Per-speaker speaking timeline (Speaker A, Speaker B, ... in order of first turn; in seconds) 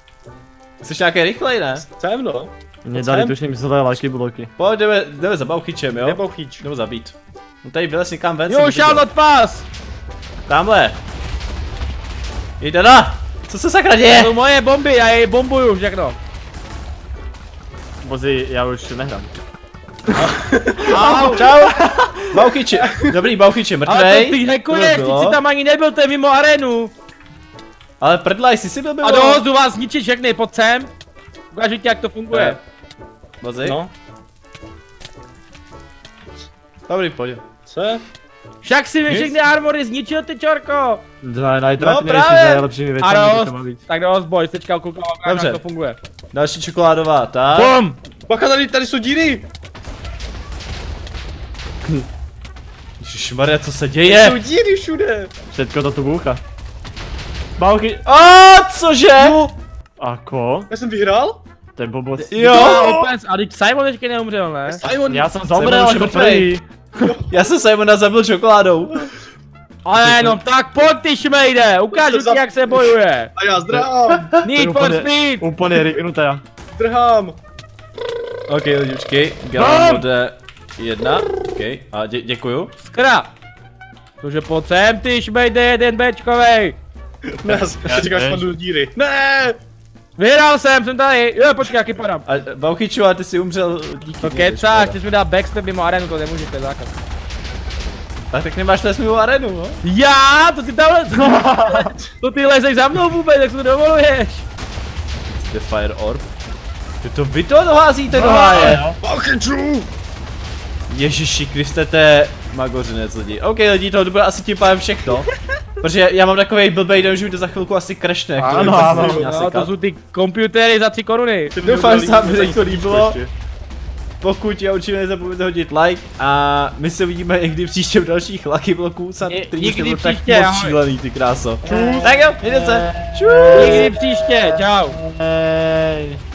Speaker A: 0.8-1.9, 4.6-9.1, 10.5-11.0, 12.6-14.3, 21.0-25.4, 28.0-29.4, 32.3-32.6, 33.4-33.8, 36.9-37.4, 39.1-39.4, 41.8-42.7, 45.2-45.6, 46.3-47.8, 53.0-54.4, 58.1-59.4, 62.2-63.0, 65.5-66.5, 67.3-69.1, 78.5-82.7, 92.3-95.0, 98.3-99.8, 105.3-106.3, 107.0-108.9, 110.9-115.3, 115.8-119.7, 121.6-123.2, 124.2-133.9
Speaker B: 1.9-3.4, 6.0-6.7, 20.1-21.4, 33.6-33.9, 37.7-38.0, 48.3-49.5, 54.0-55.3, 59.2-59.5, 60.7-61.4, 64.7-65.4, 67.0-67.4, 71.9-74.3, 76.7-77.4, 87.4-89.6, 108.2-109.9, 118.5-119.3, 121.6-123.3, 131.7-132.1
Speaker C: 2.9-4.5, 18.0-19.3, 41.2-43.8, 55.5-56.4, 57.6-58.0, 60.0-60.7, 61.8-63.1, 65.1-66.7, 70.0-70.4, 74.4-76.4, 79.5-80.0, 87.8-88.5, 101.1-102.0, 108.1-109.0, 118.4-119.2, 131.7-136.2
Speaker D: 8.5-9.7, 14.1-16.2, 20.9-21.5, 23.9-26.9, 29.0-30.9, 31.5-32.6, 38.6-41.0, 43.0-46.0, 47.5-48.0, 62.5-64.8, 69.8-73.3, 74.4-75.5, 82.8-83.3, 84.2-86.8, 90.2-92.3, 94.2-97.0, 99.8-104.5, 119.2-121.6, 129.2-130.8, 131.7-132.0, 133.5-135.0